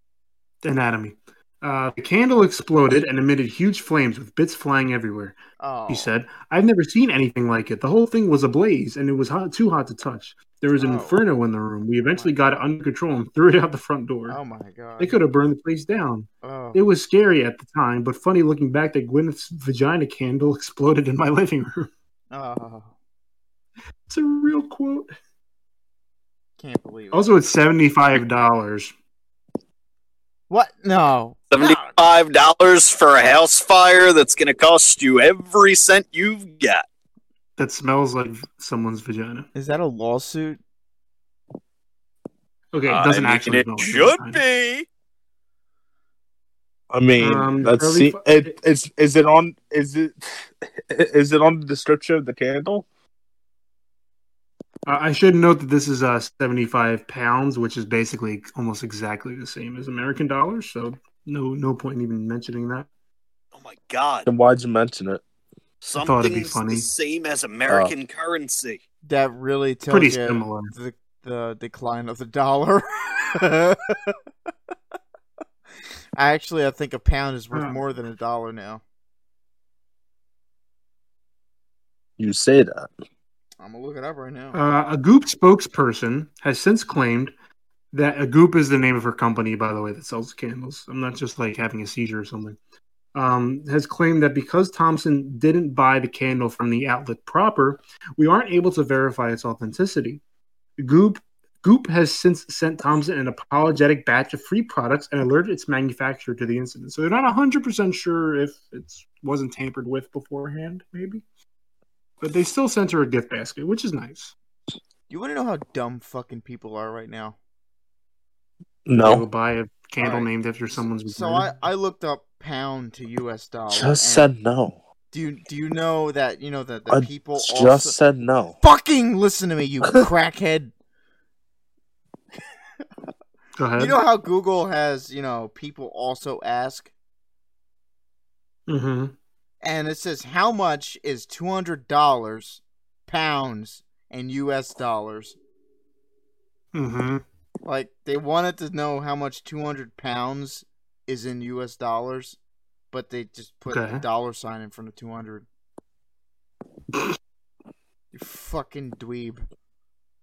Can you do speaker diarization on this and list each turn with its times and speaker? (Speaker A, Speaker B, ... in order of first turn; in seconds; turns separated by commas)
Speaker A: 0.6-5.4, Speaker B: 5.6-6.1, Speaker A: 5.9-14.4, Speaker B: 10.8-11.2, Speaker B: 12.0-12.4, Speaker B: 14.3-15.2, Speaker A: 15.0-21.9, Speaker B: 16.4-16.8, Speaker B: 22.3-22.9, Speaker A: 24.1-25.1, Speaker B: 26.6-27.3, Speaker A: 27.1-28.9, Speaker B: 30.5-32.0, Speaker C: 31.5-36.8, Speaker A: 37.6-39.5, Speaker B: 39.5-40.6, Speaker A: 42.7-44.4, Speaker C: 42.9-44.9, Speaker D: 46.9-52.9, Speaker A: 47.2-48.5, Speaker A: 54.9-62.9, Speaker C: 63.5-64.3, Speaker D: 64.3-65.2, Speaker C: 65.8-68.8, Speaker A: 66.0-66.9, Speaker D: 67.7-67.9, Speaker B: 69.0-74.2, Speaker A: 69.9-70.7, Speaker B: 76.2-78.8, Speaker A: 77.5-77.8, Speaker D: 82.2-82.9, Speaker B: 83.6-84.6, Speaker A: 84.5-87.3, Speaker A: 87.9-92.6, Speaker A: 93.1-100.2, Speaker A: 100.8-111.2, Speaker A: 112.2-114.3, Speaker B: 115.1-117.4, Speaker D: 118.9-119.3, Speaker A: 119.0-121.5, Speaker B: 120.0-124.3, Speaker D: 123.7-124.8, Speaker B: 125.1-127.9, Speaker D: 126.9-128.6, Speaker B: 128.6-130.7, Speaker A: 133.6-134.0, Speaker B: 133.8-136.9, Speaker A: 138.7-139.2, Speaker B: 139.6-145.4, Speaker A: 146.7-147.2, Speaker B: 147.7-152.4, Speaker B: 152.9-155.5, Speaker A: 153.7-154.0, Speaker B: 158.1-159.4